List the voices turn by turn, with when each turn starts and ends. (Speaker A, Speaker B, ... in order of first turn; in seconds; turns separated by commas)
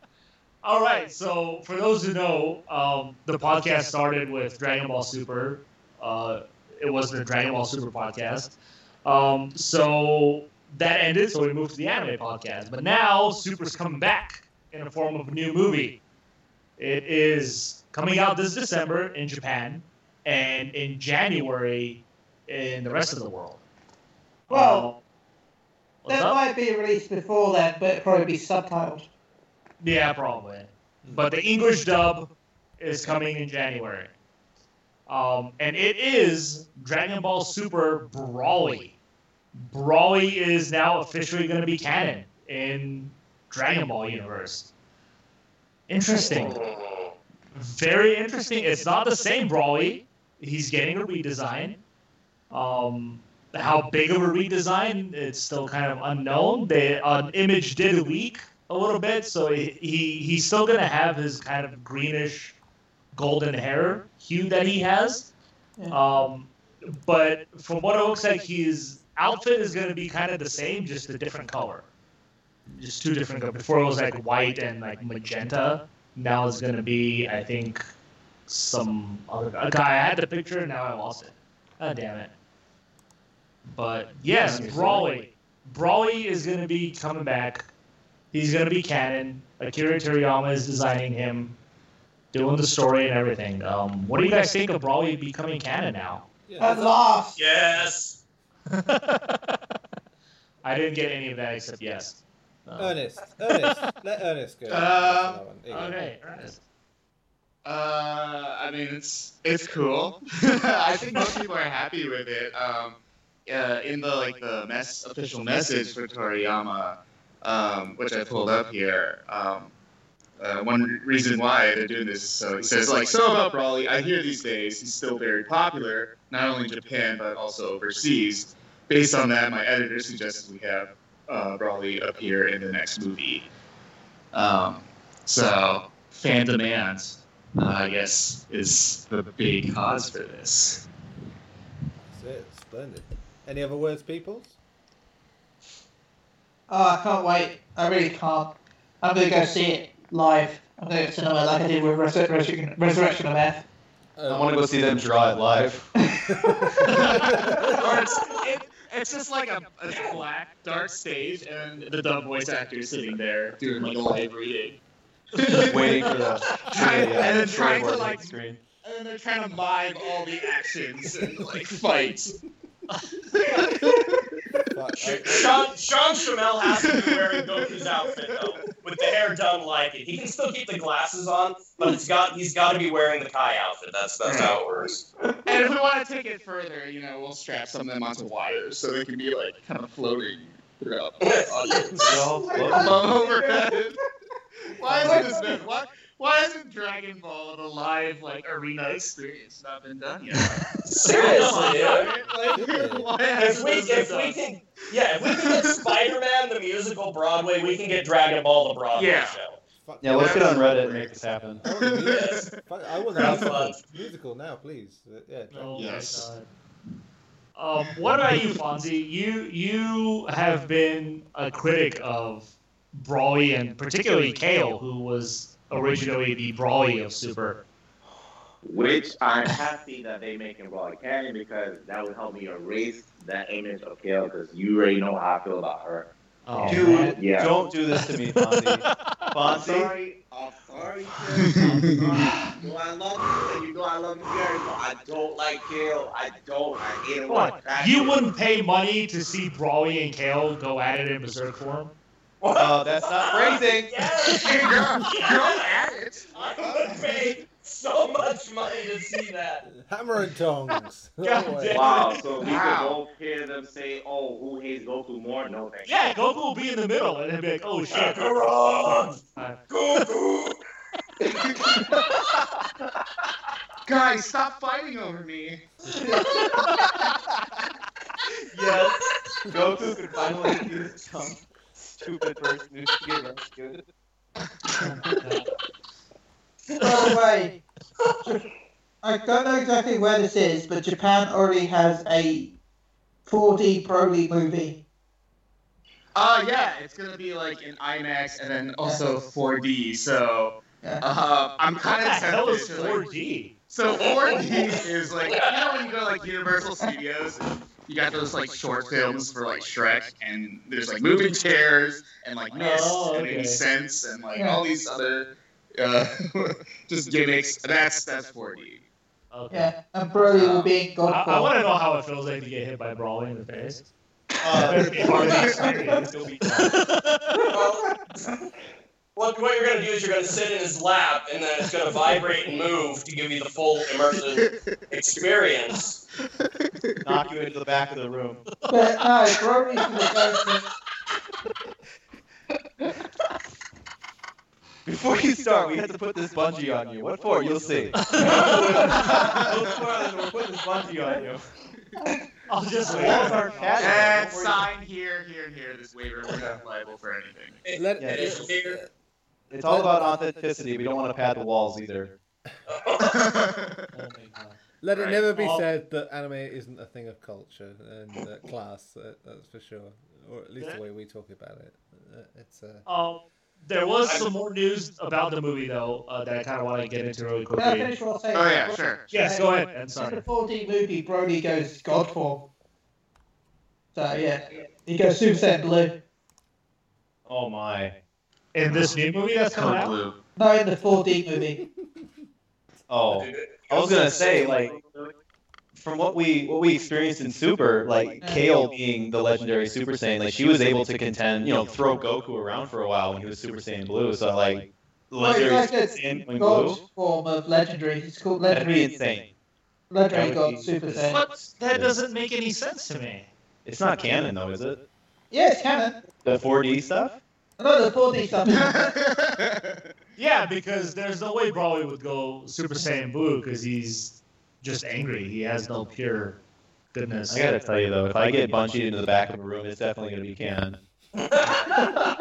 Speaker A: 0.6-16.0, Speaker A: 16.8-23.6, Speaker A: 24.5-25.0, Speaker B: 24.5-24.9, Speaker A: 26.0-26.4, Speaker B: 26.1-29.1, Speaker A: 29.8-34.1, Speaker C: 31.0-31.3, Speaker A: 35.1-38.9, Speaker A: 39.5-44.7, Speaker A: 45.9-46.6, Speaker D: 46.1-47.1, Speaker A: 47.5-51.8, Speaker A: 52.5-62.6, Speaker A: 63.1-65.3, Speaker B: 65.8-66.0, Speaker A: 65.9-71.9, Speaker A: 72.8-77.8, Speaker A: 78.5-82.3, Speaker A: 83.7-87.7, Speaker E: 84.5-85.0, Speaker A: 88.3-91.5, Speaker A: 92.3-96.2, Speaker C: 96.4-96.9, Speaker B: 96.6-97.4, Speaker D: 97.4-98.2, Speaker A: 100.6-103.8, Speaker C: 102.8-106.5, Speaker E: 104.7-105.5, Speaker A: 105.7-106.6, Speaker E: 107.6-119.7, Speaker E: 120.4-133.5, Speaker E: 134.3-140.8, Speaker C: 142.1-144.6, Speaker B: 146.7-153.6, Speaker C: 154.2-154.8, Speaker F: 154.3-155.8, Speaker C: 156.3-157.5, Speaker E: 157.0-164.8, Speaker E: 165.3-172.3, Speaker F: 165.5-168.6, Speaker C: 166.9-167.3, Speaker E: 173.3-174.3, Speaker C: 174.7-175.7, Speaker D: 175.0-185.0, Speaker E: 175.1-175.5, Speaker E: 176.6-178.7, Speaker E: 184.2-184.6, Speaker E: 185.4-194.0, Speaker D: 191.2-191.9, Speaker F: 191.9-193.2, Speaker B: 192.6-193.7, Speaker E: 194.7-204.3, Speaker F: 194.9-195.3, Speaker B: 195.0-195.5, Speaker D: 201.0-202.1, Speaker A: 201.2-202.5, Speaker C: 202.5-203.1, Speaker D: 203.3-209.6, Speaker A: 204.0-204.3, Speaker E: 205.2-206.0, Speaker E: 208.9-209.4, Speaker C: 209.7-210.9, Speaker F: 210.0-211.6, Speaker E: 210.1-210.7, Speaker C: 211.6-215.9, Speaker E: 211.7-212.5, Speaker D: 212.1-212.4, Speaker E: 213.1-213.6, Speaker D: 213.1-213.8, Speaker A: 215.5-216.4, Speaker E: 215.7-216.3, Speaker A: 217.5-227.6, Speaker G: 228.6-236.1, Speaker A: 236.4-237.2, Speaker G: 236.6-237.5, Speaker F: 236.6-239.9, Speaker A: 237.9-239.3, Speaker G: 239.4-248.3, Speaker E: 241.3-242.6, Speaker A: 247.2-251.9, Speaker D: 252.4-259.6, Speaker F: 252.5-254.1, Speaker E: 254.2-257.3, Speaker C: 259.8-261.9, Speaker A: 261.2-262.6, Speaker G: 261.7-266.2, Speaker E: 262.4-263.0, Speaker A: 265.9-269.6, Speaker D: 267.9-269.2, Speaker D: 269.7-270.6, Speaker E: 271.2-272.0, Speaker D: 271.8-272.0, Speaker E: 273.8-277.1, Speaker A: 276.2-276.8, Speaker F: 278.5-283.8, Speaker B: 286.8-287.6, Speaker B: 289.0-292.5, Speaker B: 293.3-294.8, Speaker E: 296.1-303.0, Speaker A: 301.8-303.6, Speaker E: 303.7-318.8, Speaker D: 303.9-305.9, Speaker A: 312.5-313.6, Speaker B: 314.3-314.6, Speaker A: 319.3-319.7, Speaker B: 319.5-321.6, Speaker A: 320.4-323.9, Speaker F: 324.4-326.7, Speaker A: 324.5-327.3, Speaker E: 324.8-325.6, Speaker D: 327.5-327.9, Speaker D: 329.1-336.0, Speaker E: 334.1-335.2, Speaker E: 336.4-337.0, Speaker F: 337.0-338.4, Speaker B: 338.7-340.6, Speaker F: 344.9-351.6, Speaker A: 347.9-349.1, Speaker E: 348.9-349.8, Speaker A: 352.5-354.2, Speaker F: 352.9-354.7, Speaker E: 353.8-357.6, Speaker D: 357.6-358.8, Speaker C: 357.7-358.9, Speaker F: 358.0-358.5, Speaker F: 359.5-362.2, Speaker D: 362.7-363.4, Speaker E: 363.0-363.9, Speaker A: 363.9-364.6, Speaker C: 364.8-372.9, Speaker A: 365.2-365.6, Speaker A: 372.9-377.9, Speaker B: 377.6-382.5, Speaker E: 378.3-379.2, Speaker A: 379.1-380.2, Speaker B: 383.9-386.0, Speaker F: 387.2-387.9, Speaker A: 388.5-389.9, Speaker F: 389.5-389.9, Speaker B: 390.4-391.6, Speaker C: 391.3-392.1, Speaker F: 392.9-395.1, Speaker D: 393.1-394.9, Speaker F: 395.7-406.8, Speaker B: 398.2-398.5, Speaker B: 405.2-408.9, Speaker F: 408.5-409.3, Speaker B: 409.9-411.2, Speaker F: 410.1-410.8, Speaker A: 410.9-413.3, Speaker F: 411.7-411.9, Speaker F: 413.6-414.8, Speaker B: 415.3-416.0, Speaker F: 416.2-417.2, Speaker B: 417.6-418.9, Speaker E: 418.4-419.9, Speaker A: 420.2-426.4, Speaker A: 426.9-427.5, Speaker F: 427.3-430.8, Speaker D: 431.2-431.9